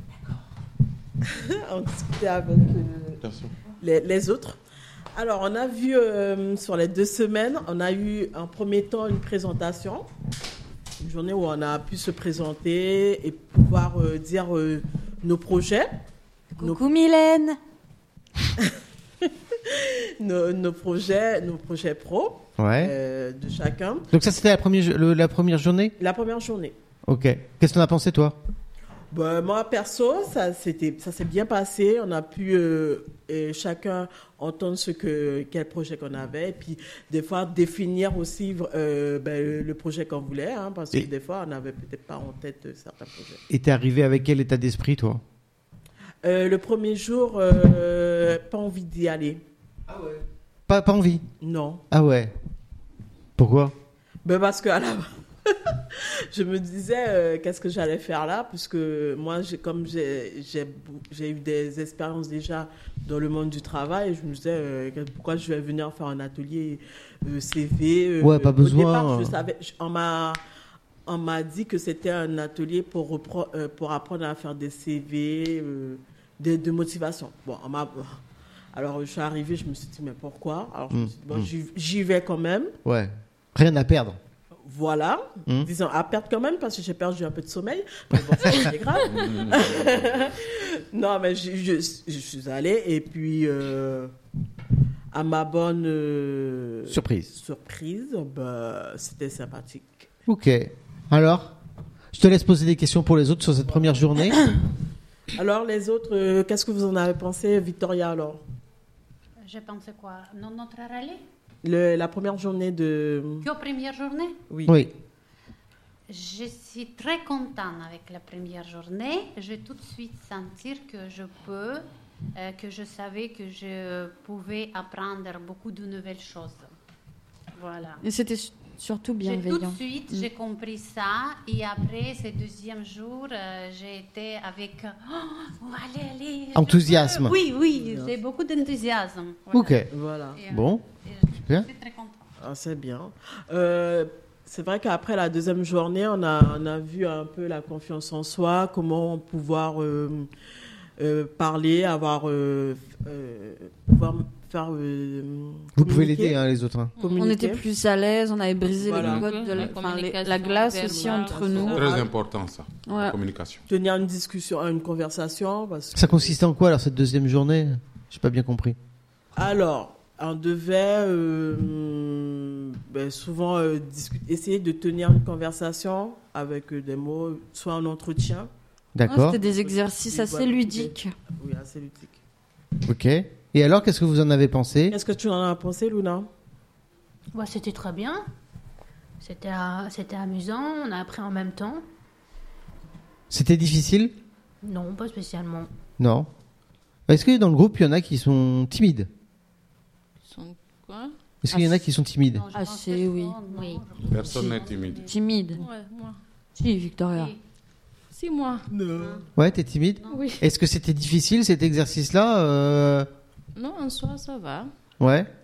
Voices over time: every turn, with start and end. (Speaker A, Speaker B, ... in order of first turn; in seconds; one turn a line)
Speaker A: 1.2-3.2
Speaker B: 3.2-3.5
Speaker A: 3.8-4.6
Speaker A: 5.2-10.1
Speaker A: 11.0-15.9
Speaker C: 16.6-17.6
Speaker A: 19.2-24.1
Speaker D: 22.6-22.9
Speaker D: 24.1-25.9
Speaker A: 26.0-26.8
Speaker D: 27.1-28.4
Speaker A: 29.1-43.4
Speaker D: 43.5-45.2
Speaker A: 46.2-49.4
Speaker D: 49.9-51.3
Speaker A: 51.4-51.8
Speaker D: 51.9-52.3
Speaker D: 53.4-53.7
Speaker A: 54.2-70.4
Speaker D: 68.2-69.4
Speaker A: 71.1-78.2
Speaker A: 78.7-82.7
Speaker D: 80.9-81.5
Speaker D: 82.8-84.2
Speaker A: 84.6-94.1
Speaker B: 89.1-89.8
Speaker A: 95.1-100.1
Speaker D: 96.9-97.3
Speaker D: 100.3-101.5
Speaker D: 102.1-104.5
Speaker A: 105.3-108.4
Speaker E: 109.4-111.2
Speaker A: 111.6-113.5
Speaker E: 113.4-114.4
Speaker A: 114.5-114.9
Speaker D: 114.7-114.9
Speaker E: 116.1-126.7
Speaker E: 127.5-128.0
Speaker C: 128.0-130.3
Speaker E: 129.2-139.6
Speaker D: 136.6-137.4
Speaker A: 137.7-138.2
Speaker D: 139.5-139.9
Speaker A: 139.9-140.4
Speaker E: 140.3-142.2
Speaker D: 140.5-140.8
Speaker D: 141.4-141.7
Speaker A: 142.4-150.3
Speaker A: 151.0-156.4
Speaker D: 155.8-156.9
Speaker F: 157.0-157.3
Speaker A: 157.0-157.6
Speaker C: 157.2-161.9
Speaker A: 158.8-159.2
Speaker B: 159.0-159.2
Speaker F: 159.2-161.8
Speaker A: 160.7-162.1
Speaker B: 161.7-163.6
Speaker C: 162.9-163.2
Speaker A: 163.7-166.4
Speaker D: 165.9-168.8
Speaker A: 169.3-178.5
Speaker D: 178.9-179.4
Speaker C: 179.1-181.1
Speaker A: 179.4-182.2
Speaker D: 182.9-185.0
Speaker A: 184.9-186.3
Speaker G: 187.3-188.2
Speaker G: 189.2-191.8
Speaker D: 193.3-194.1
Speaker G: 194.6-195.7
Speaker D: 196.0-196.3
Speaker D: 197.1-199.1
Speaker F: 200.3-201.1
Speaker D: 201.4-202.5
Speaker C: 201.5-201.8
Speaker E: 202.3-205.1
Speaker C: 202.5-203.4
Speaker G: 203.5-203.8
Speaker B: 204.1-205.1
Speaker C: 205.1-205.6
Speaker F: 205.6-206.2
Speaker C: 206.6-207.3
Speaker E: 207.1-207.4
Speaker F: 208.1-208.7
Speaker A: 208.7-209.3
Speaker E: 208.9-209.2
Speaker D: 209.4-213.1
Speaker F: 210.1-210.4
Speaker F: 213.6-214.7
Speaker D: 215.0-215.3